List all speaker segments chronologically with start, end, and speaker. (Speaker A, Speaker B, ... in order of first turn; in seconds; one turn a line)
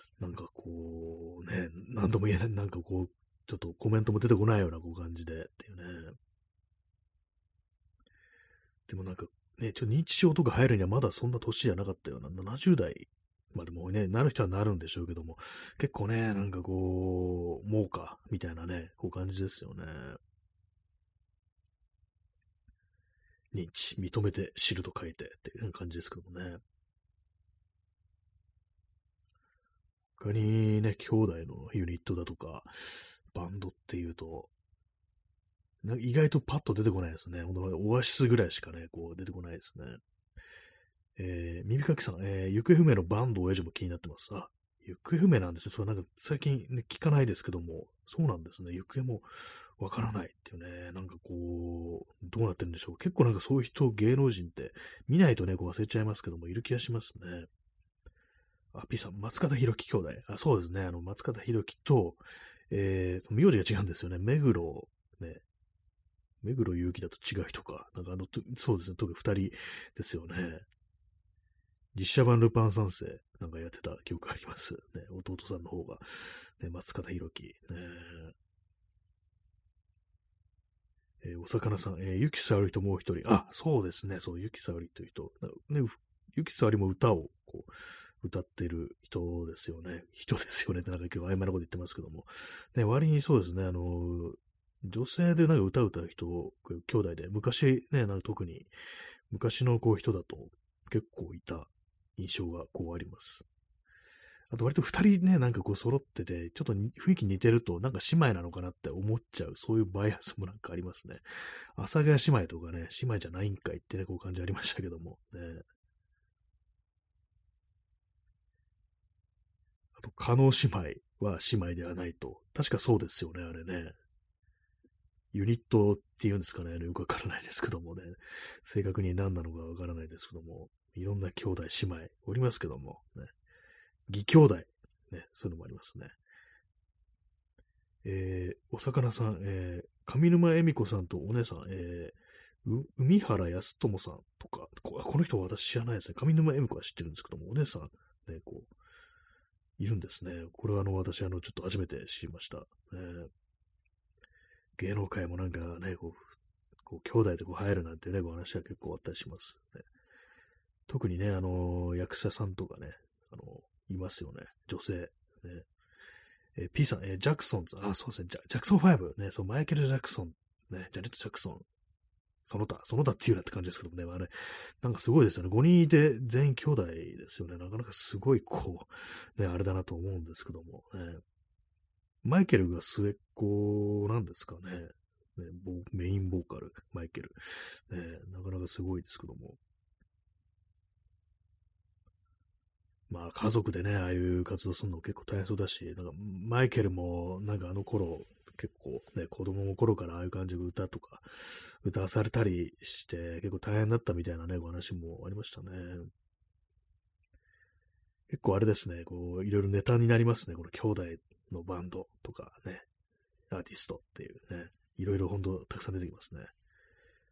Speaker A: 0.2-6.2
Speaker A: 8.9-20.2
Speaker A: 23.5-26.6
Speaker A: 30.2-34.5
Speaker A: 35.8-40.0
Speaker A: 41.2-57.5
Speaker A: 58.7-65.4
Speaker A: 66.4-70.6
Speaker A: 71.9-78.3
Speaker A: 81.2-98.7
Speaker A: 99.3-103.4
Speaker A: 104.5-115.6
Speaker A: 119.9-123.9
Speaker A: 125.3-133.3
Speaker A: 134.1-136.1
Speaker A: 138.0-148.7
Speaker A: 149.8-153.3
Speaker A: 154.8-159.8
Speaker A: 160.9-165.7
Speaker A: 166.6-171.7
Speaker A: 172.4-181.2
Speaker A: 182.2-189.6
Speaker A: 193.1-206.1
Speaker A: 208.3-212.8
Speaker A: 213.5-216.5